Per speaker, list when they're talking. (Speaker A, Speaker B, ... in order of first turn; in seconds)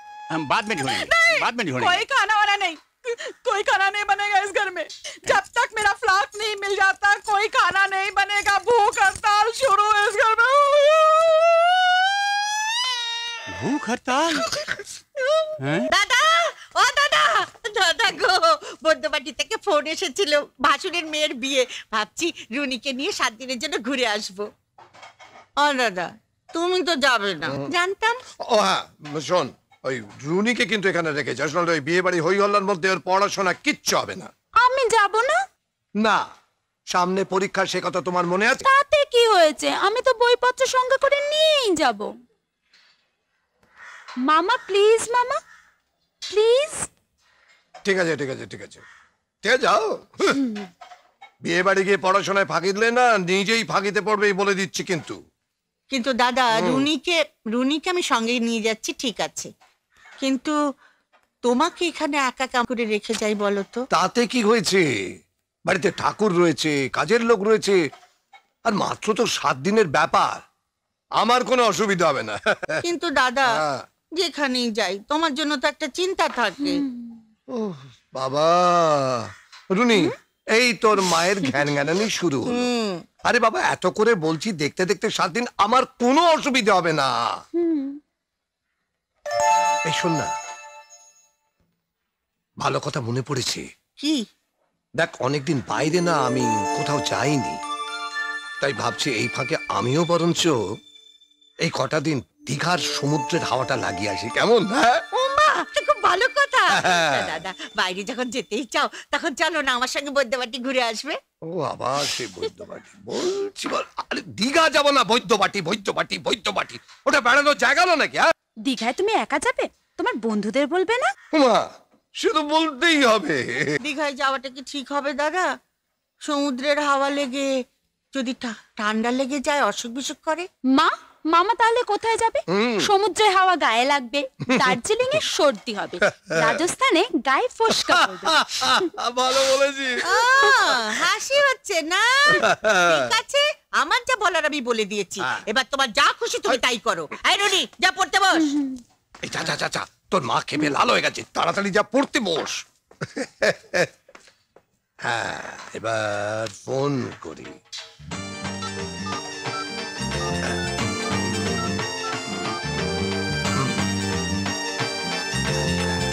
Speaker A: 0.3-2.0, 13.5-14.5, 15.6-15.9
Speaker B: 0.8-12.2
Speaker C: 15.3-24.5, 25.6-28.2, 55.9-59.5, 60.2-60.6, 61.4-63.8, 72.8-73.6, 74.2-76.8, 82.5-83.1, 105.2-111.2, 123.8-125.5, 126.2-127.5, 128.1-130.5, 140.0-148.6
Speaker D: 28.4-34.3, 36.9-38.7, 47.8-48.8, 49.4-50.4, 51.4-55.2, 56.5-56.9, 63.9-64.8, 65.7-67.8, 68.7-70.4, 71.2-72.8, 73.5-73.8, 77.5-82.7, 83.3-87.2, 89.9-90.3, 92.6-93.7, 95.0-97.6, 98.6-100.6, 101.6-105.0, 106.7-107.5, 111.5-118.3, 121.3-123.7, 132.5-132.9, 136.0-136.6, 137.7-140.1, 140.7-141.0, 142.3-143.0, 149.2-153.9, 155.1-157.6, 163.6-163.8
Speaker E: 34.6-35.4, 38.6-42.1, 44.2-45.4, 46.3-46.9, 76.6-77.2, 87.6-88.0, 118.7-121.1, 130.7-138.8, 148.4-148.8